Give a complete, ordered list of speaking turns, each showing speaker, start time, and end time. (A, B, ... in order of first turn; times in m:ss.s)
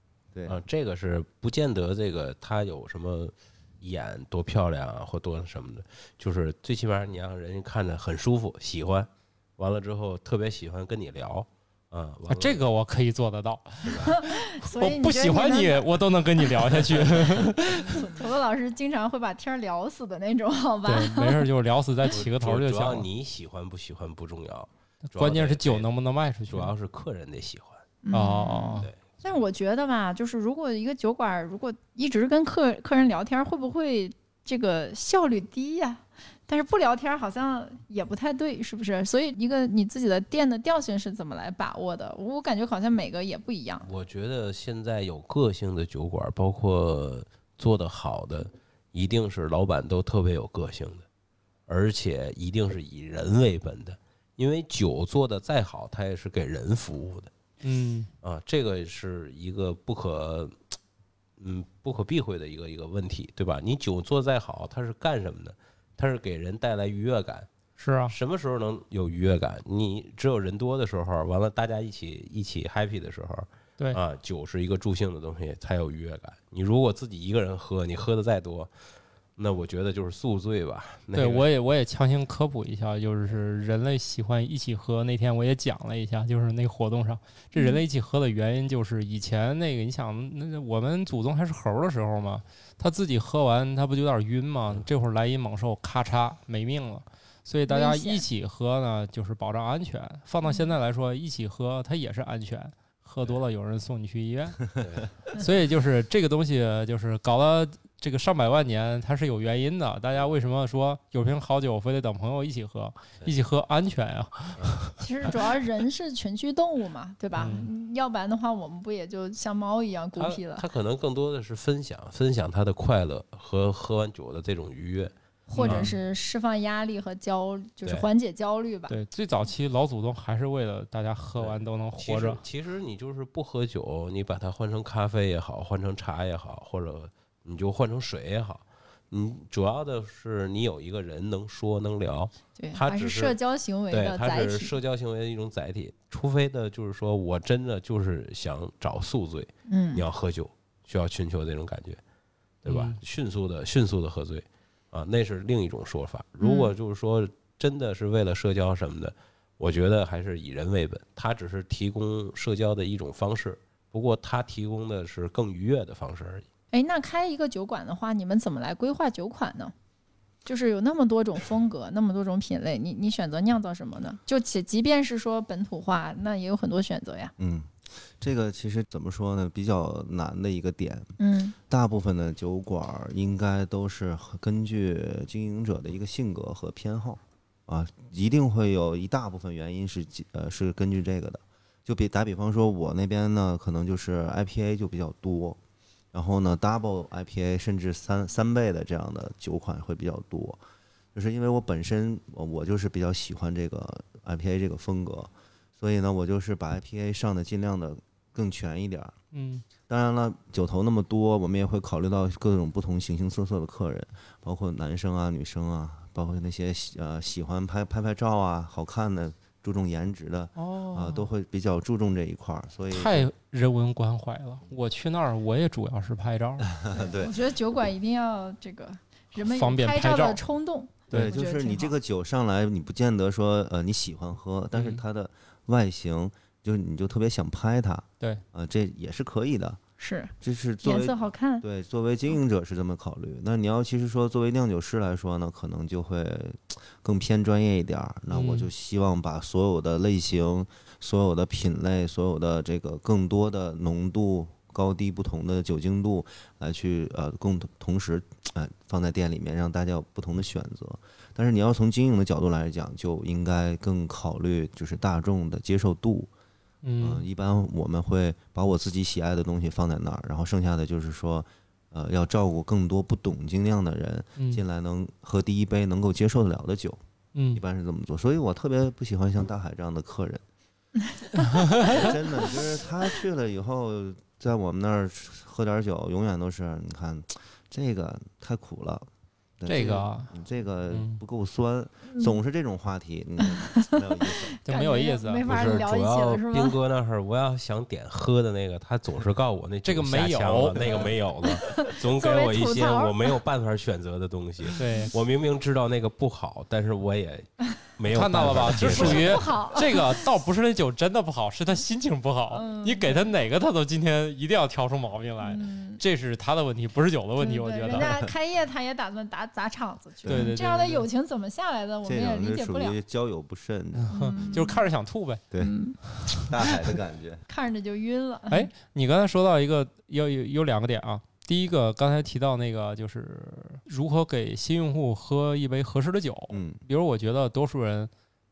0:00.5-0:12.6 A
0:12.3-0:18.0 B
0:13.8-0:14.1 A
0:14.1-0:17.1 C
0:16.8-0:17.9 A
0:17.9-0:21.4 C
0:20.8-0:23.1 B
0:22.1-0:25.8 A
0:25.1-0:26.7 B
0:26.5-0:27.8 A
0:28.0-0:43.9 C
0:28.1-0:28.9 B
0:43.8-0:51.0 A
0:51.7-0:57.3 A
0:57.6-0:58.1 B
0:58.2-1:00.6 A
1:01.4-1:07.5 A
1:07.8-1:08.1 B
1:08.1-1:18.7 A
1:19.4-1:21.4 A
1:21.1-1:44.6 B
1:27.6-1:27.8 C
1:37.7-1:38.2 C
1:40.4-1:40.7 C
1:44.8-1:45.1 A
1:45.3-1:54.8 B
1:55.0-2:00.6 C
1:57.4-1:57.7 B
2:00.2-2:05.9 A
2:05.5-2:09.0 C
2:05.6-2:06.0 B
2:08.9-2:12.4 B
2:11.4-2:23.4 A
2:22.6-2:24.7 C
2:23.9-2:32.0 A
2:29.7-2:30.0 C
2:32.6-2:46.4 A
2:32.7-2:33.0 B
2:36.4-2:36.7 C
2:46.7-2:49.7 C
2:50.4-2:57.3 C
2:57.4-3:01.1 D
3:01.2-3:01.6 C
3:01.7-3:15.6 D
3:16.1-3:20.6 D
3:21.1-3:29.1 D
3:29.3-3:29.6 B
3:29.9-3:43.3 D
3:40.6-3:41.3 B
3:42.9-3:46.7 B
3:46.6-3:47.4 D
3:46.9-3:51.9 C
3:49.4-3:50.4 B
3:51.1-3:59.8 D
3:54.7-3:55.0 B
4:00.0-4:01.6 C
4:00.4-4:26.3 D
4:08.3-4:08.7 B
4:26.8-4:27.2 B
4:27.0-4:37.0 D
4:37.3-4:37.6 B
4:37.5-4:40.4 D
4:41.5-4:41.9 B
4:41.8-4:49.0 D
4:41.8-4:42.1 C
4:49.6-4:54.6 D
4:49.6-4:50.3 B
4:50.9-4:51.2 B
4:52.1-4:52.4 C
4:53.4-4:56.8 C
4:54.6-4:55.5 B
4:55.4-5:09.6 A
4:59.8-5:01.1 B
5:01.4-5:03.3 C
5:04.8-5:05.1 B
5:04.8-5:05.1 C
5:08.1-5:18.1 B
5:08.8-5:10.2 C
5:12.5-5:13.3 C
5:15.4-5:16.0 C
5:17.4-5:23.0 C
5:17.9-5:18.3 D
5:20.2-5:20.5 D
5:20.3-5:21.1 B
5:22.0-5:24.7 D
5:23.9-5:25.4 B
5:24.1-5:24.8 C
5:25.6-5:26.0 C
5:26.3-5:27.4 D
5:27.5-5:28.7 C
5:28.5-5:38.1 B
5:36.5-5:36.8 D